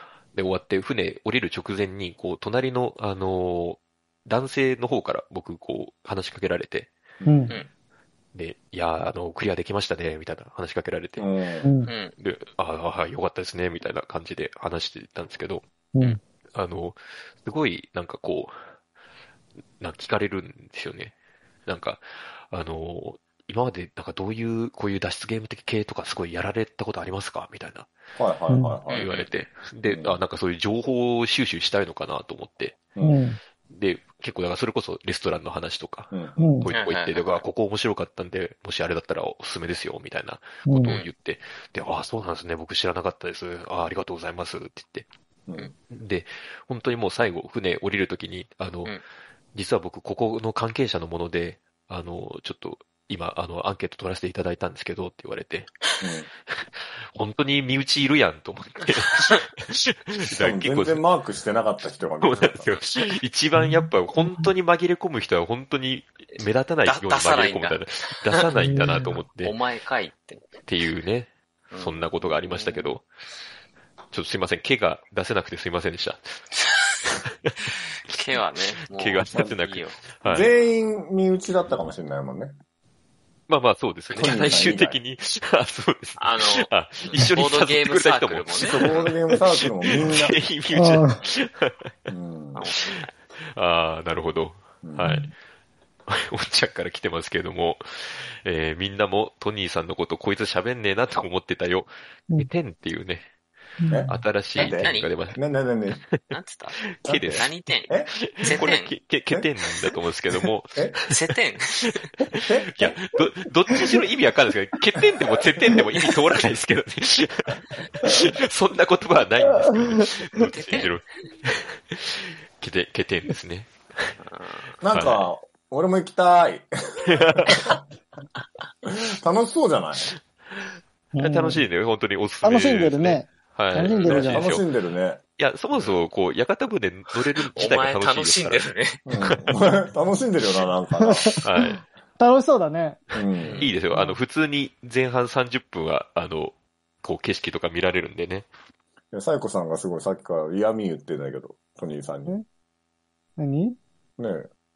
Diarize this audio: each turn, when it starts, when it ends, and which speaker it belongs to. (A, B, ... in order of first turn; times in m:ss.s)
0:00.3-0:06.9 A
0:07.2-0:07.6 B
0:07.2-0:07.6 C
0:08.3-0:11.3 A
0:11.2-0:11.7 B
0:11.6-0:11.9 C
0:11.9-0:12.1 D
0:12.2-0:15.6 A
0:16.5-0:18.5 A
0:19.8-0:21.1 A
0:21.6-0:27.9 A
0:28.2-0:29.1 B
0:28.5-0:28.8 C
0:28.9-0:29.3 D
0:28.9-0:32.8 A
0:29.8-0:30.2 B
0:33.0-0:33.4 C
0:33.7-0:45.1 A
0:36.1-0:36.5 B
0:36.4-0:36.7 C
0:36.7-0:37.4 D
0:40.6-0:41.0 C
0:40.8-0:41.1 D
0:45.9-0:49.0 A
0:49.5-0:55.7 A
0:56.0-0:56.3 B
0:57.1-1:01.0 A
1:00.4-1:02.8 B
1:02.2-1:09.6 A
1:03.5-1:04.5 C
1:06.8-1:07.8 D
1:08.5-1:09.2 C
1:09.4-1:10.5 D
1:10.6-1:13.0 A
1:11.7-1:12.8 D
1:14.1-1:16.4 A
1:18.1-1:20.1 D
1:18.9-1:20.5 A
1:20.2-1:22.5 B
1:23.5-1:28.8 A
1:24.1-1:25.0 B
1:26.2-1:29.1 D
1:28.5-1:30.4 B
1:29.3-1:31.9 A
1:30.7-1:31.2 C
1:32.1-1:32.6 B
1:32.5-1:33.1 D
1:33.5-1:35.3 A
1:34.8-1:35.1 B
1:35.0-1:35.3 C
1:36.1-1:43.2 A
1:43.8-1:44.2 C
1:43.9-1:46.0 B
1:44.1-1:45.4 A
1:44.5-1:45.1 D
1:46.3-1:46.8 D
1:46.9-1:47.5 A
1:47.0-1:48.1 B
1:47.3-1:48.9 D
1:48.1-1:51.1 A
1:51.1-1:52.1 D
1:51.8-2:04.2 A
1:52.4-1:52.9 B
2:00.4-2:01.0 D
2:04.2-2:04.8 D
2:04.8-2:07.8 B
2:04.9-2:05.3 A
2:07.1-2:07.7 A
2:08.8-2:10.1 B
2:11.1-2:11.6 C
2:11.2-2:14.6 A
2:12.4-2:14.5 C
2:13.9-2:15.2 B
2:15.4-2:18.7 A
2:17.4-2:19.0 D
2:19.0-2:21.4 B
2:21.0-2:23.0 C
2:21.4-2:21.8 A
2:23.1-2:24.1 B
2:23.4-2:23.7 D
2:23.6-2:28.5 A
2:29.1-2:32.3 B
2:33.4-2:33.8 C
2:34.2-2:34.4 B